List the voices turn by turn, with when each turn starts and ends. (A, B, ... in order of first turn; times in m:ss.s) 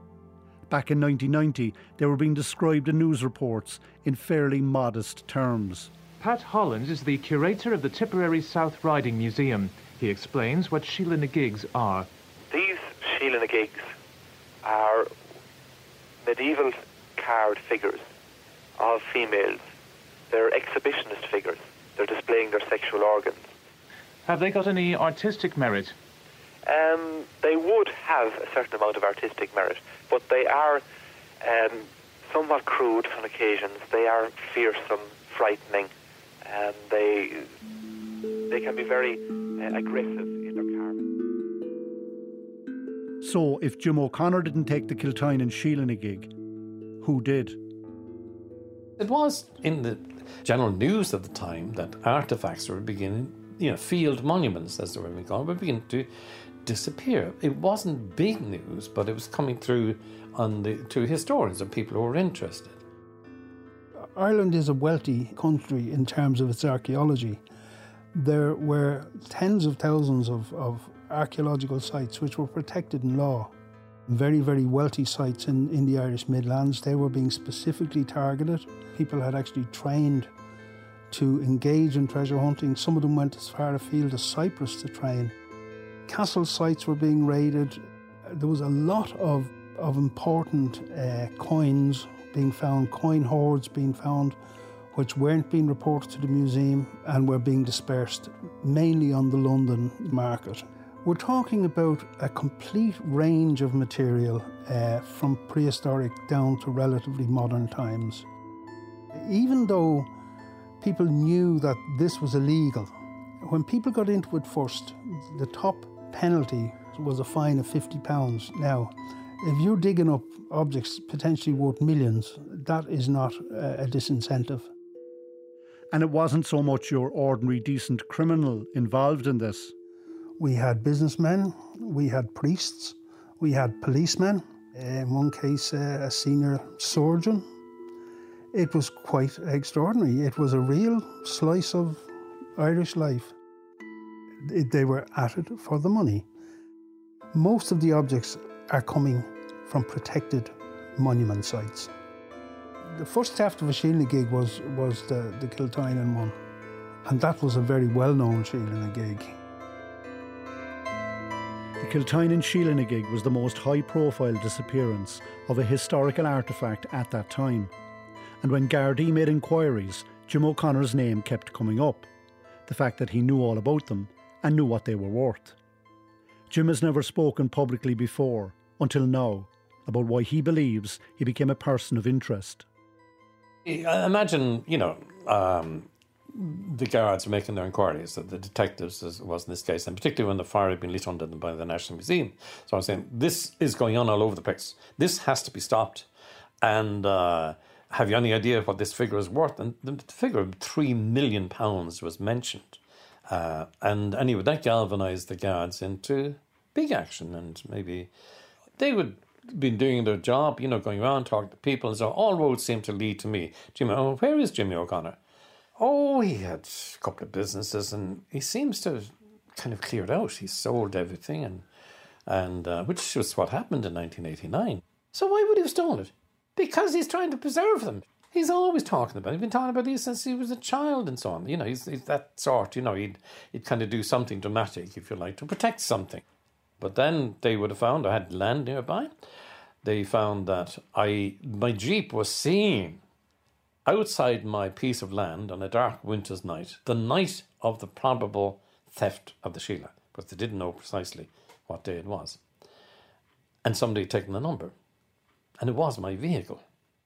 0:00.7-0:05.9 A
0:06.2-0:12.1 B
0:12.5-0:13.9 C
0:14.6-0:15.1 C
0:16.2-0:18.0 C
0:18.8-0:19.6 C
0:20.3-0:23.5 C
0:24.2-0:25.9 B
0:26.6-0:30.8 C
0:31.4-0:35.9 C
0:36.4-0:37.5 C
0:38.5-0:41.1 C
0:43.2-0:46.3 A
0:47.0-0:47.6 A
0:49.0-0:56.1 D
0:56.6-1:02.8 D
1:04.0-1:07.4 E
1:08.2-1:13.5 E
1:14.1-1:20.3 E
1:21.1-1:25.3 E
1:26.1-1:34.4 E
1:34.9-1:48.3 E
1:49.2-1:50.1 E
1:50.8-2:04.7 E
2:05.9-2:09.7 A
2:10.4-2:17.5 E
2:18.5-2:22.1 E
2:22.6-2:23.3 E
2:24.4-2:26.3 E
2:27.3-2:31.9 E
2:32.9-2:36.4 E
2:37.1-2:39.4 E
2:41.8-2:47.7 A
2:48.4-2:52.1 A
2:52.7-2:55.6 A
2:56.5-3:02.6 A
3:03.7-3:16.1 D
3:16.6-3:28.1 D
3:28.8-3:35.2 D
3:35.8-3:41.6 D
3:42.3-3:56.2 D
3:56.8-3:59.1 D
3:59.8-4:03.0 D
4:03.9-4:12.4 D
4:13.6-4:14.7 D
4:15.6-4:16.6 D